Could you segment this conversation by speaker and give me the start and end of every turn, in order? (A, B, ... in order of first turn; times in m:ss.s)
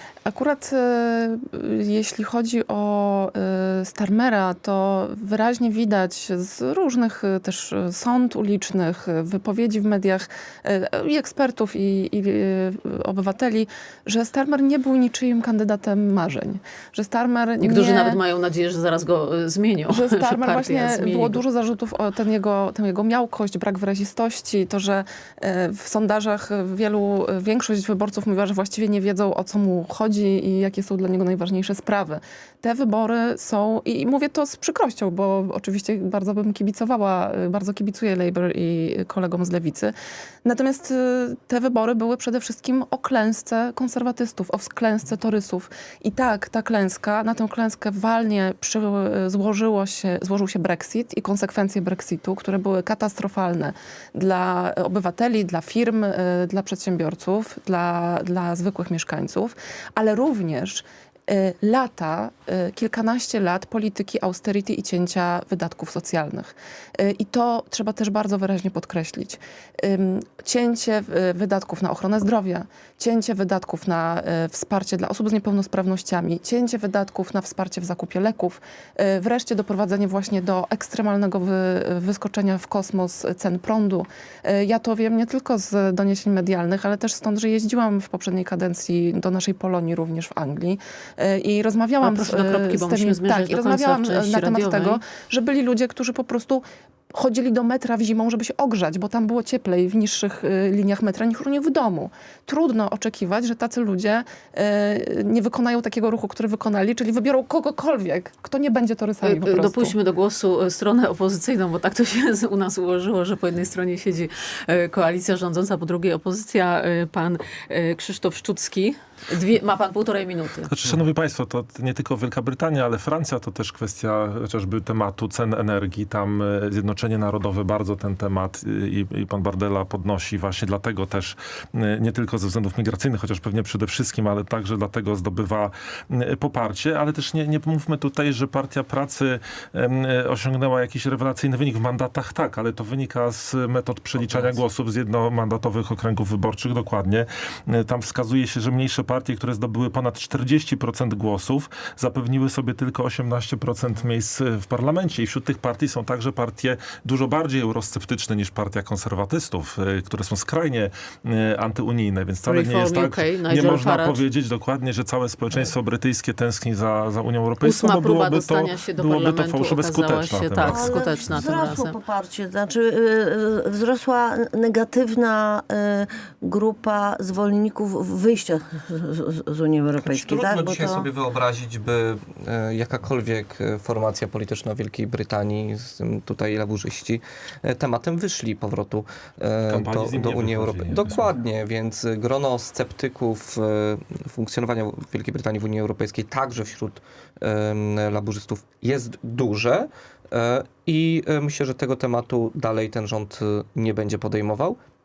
0:00.2-0:18.2 A
0:17.6-0:21.4 B
0:19.9-1:50.0 A
1:32.0-1:35.0 B
1:49.2-2:00.7 B
2:00.7-2:51.0 C
2:42.4-2:44.2 B
2:47.6-2:52.0 B
2:50.6-3:01.1 D
3:00.0-3:24.8 E
3:09.7-3:11.3 C